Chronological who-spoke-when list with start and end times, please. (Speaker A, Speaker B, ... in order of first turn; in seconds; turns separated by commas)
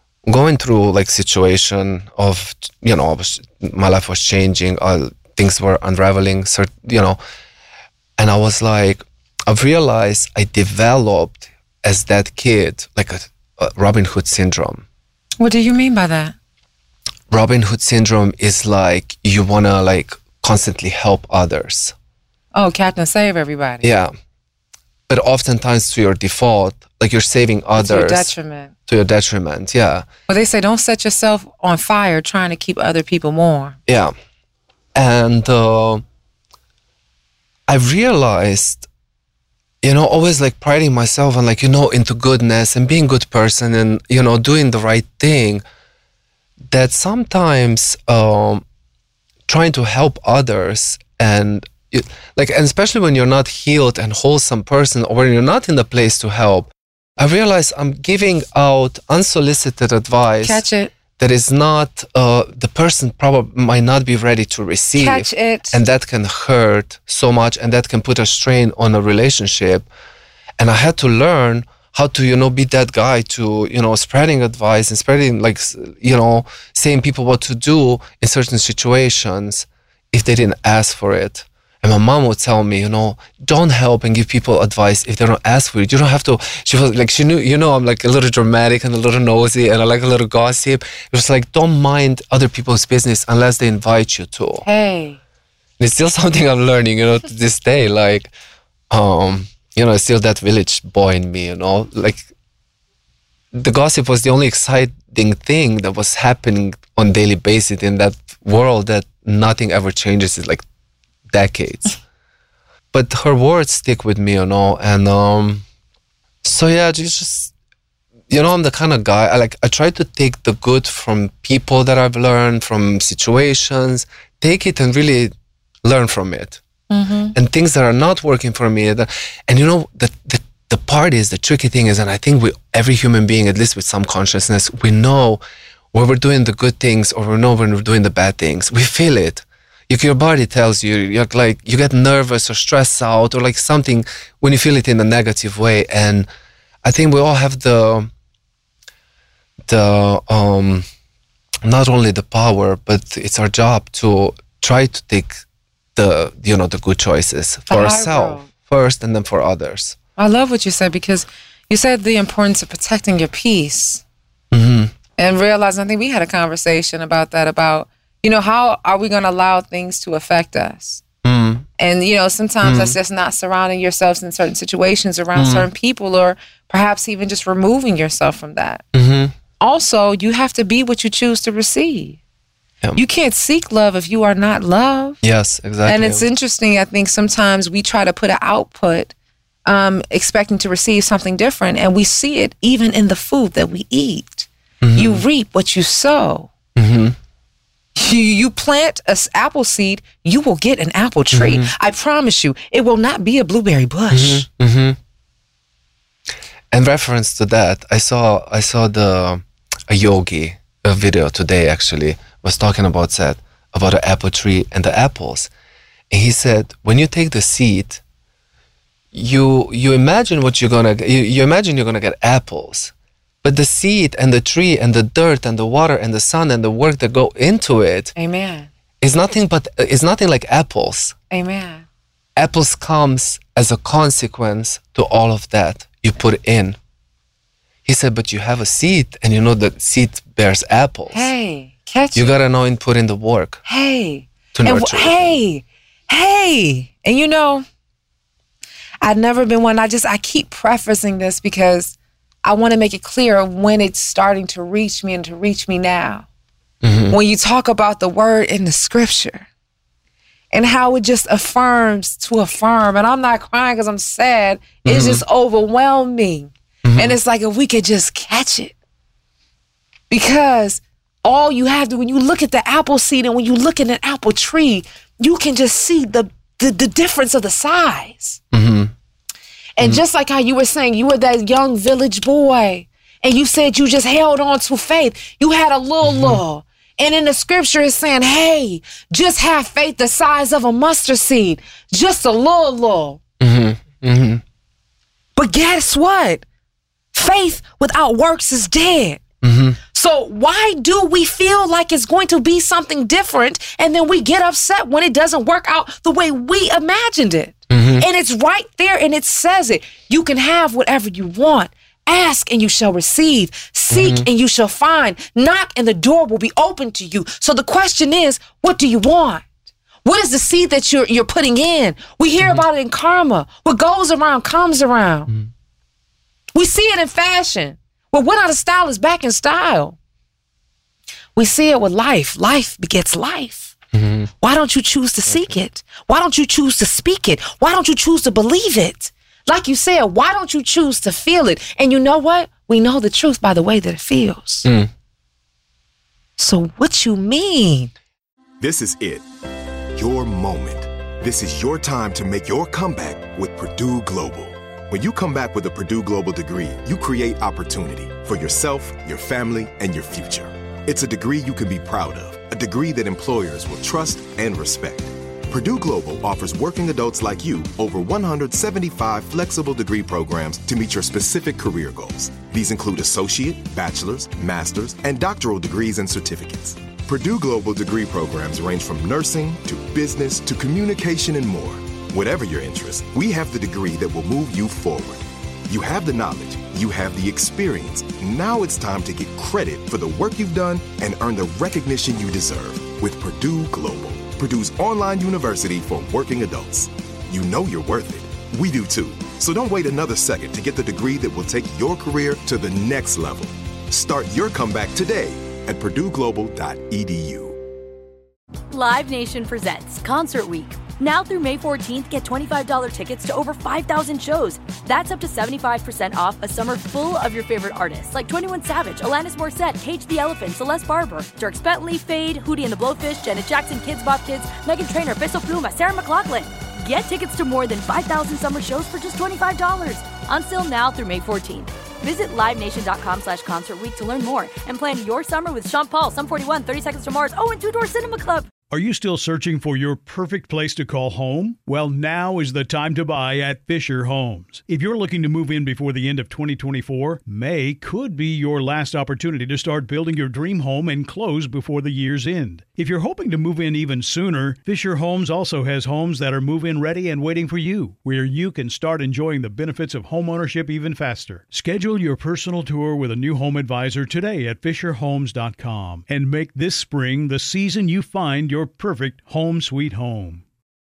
Speaker A: 0.2-7.2, Speaker A: 8.2-14.8, Speaker B: 15.4-16.3, Speaker A: 17.3-21.9, Speaker B: 22.5-23.9, Speaker A: 23.8-24.1, Speaker A: 25.1-28.3, Speaker B: 27.8-28.7, Speaker A: 28.9-30.1, Speaker B: 30.3-33.8, Speaker A: 33.9-34.1, Speaker A: 34.9-36.0, Speaker A: 37.7-38.9, Speaker A: 39.8-45.6, Speaker A: 46.7-48.6, Speaker A: 49.5-60.6, Speaker B: 60.4-60.9, Speaker A: 61.2-69.9, Speaker B: 65.0-65.8, Speaker A: 70.6-94.7, Speaker B: 94.6-95.2, Speaker A: 95.8-98.3, Speaker A: 98.9-102.3, Speaker A: 103.5-110.6, Speaker A: 111.3-112.0, Speaker A: 112.9-115.6, Speaker A: 116.4-117.5, Speaker A: 118.3-125.3, Speaker A: 125.8-126.6, Speaker B: 126.9-127.3, Speaker A: 127.3-135.4, Speaker A: 135.9-146.3, Speaker A: 146.8-148.1, Speaker A: 149.7-150.8, Speaker A: 151.6-155.4, Speaker A: 155.9-160.0, Speaker B: 157.7-158.5, Speaker B: 160.2-164.0, Speaker A: 164.5-164.9, Speaker B: 165.2-171.0, Speaker A: 171.2-171.7, Speaker B: 171.8-178.8, Speaker A: 172.6-173.0, Speaker A: 175.3-175.7, Speaker A: 178.9-179.3, Speaker B: 179.6-182.2, Speaker B: 182.9-185.2, Speaker A: 185.2-186.2, Speaker B: 185.8-189.1, Speaker B: 189.7-196.5, Speaker A: 194.8-195.2, Speaker A: 196.7-197.2, Speaker B: 198.0-204.4, Speaker A: 201.3-201.7, Speaker A: 204.1-205.0, Speaker A: 206.7-215.5, Speaker A: 216.1-218.0, Speaker A: 219.1-228.1, Speaker B: 228.2-228.7, Speaker A: 229.0-231.1, Speaker B: 231.3-231.8, Speaker A: 232.3-236.8, Speaker A: 237.8-241.3, Speaker B: 241.1-242.3, Speaker A: 242.1-243.6, Speaker B: 243.7-247.6, Speaker A: 244.5-245.4, Speaker B: 249.0-256.3, Speaker A: 256.8-257.2, Speaker B: 257.1-259.5, Speaker B: 260.5-268.7, Speaker A: 264.8-265.2, Speaker A: 266.8-267.1, Speaker B: 270.1-278.4, Speaker A: 278.5-278.9, Speaker B: 279.8-293.2, Speaker A: 286.0-286.4, Speaker A: 293.4-294.4, Speaker B: 295.4-296.4, Speaker B: 297.1-299.2, Speaker A: 299.4-299.8, Speaker B: 299.9-319.4, Speaker A: 307.7-308.1, Speaker A: 313.9-314.3, Speaker B: 320.0-325.3, Speaker B: 326.5-330.0, Speaker B: 331.4-333.7, Speaker A: 333.9-334.3, Speaker B: 334.4-344.7, Speaker A: 344.6-344.9, Speaker B: 346.4-347.9, Speaker C: 348.6-349.2, Speaker C: 349.9-407.6, Speaker D: 408.7-438.5, Speaker E: 438.7-470.4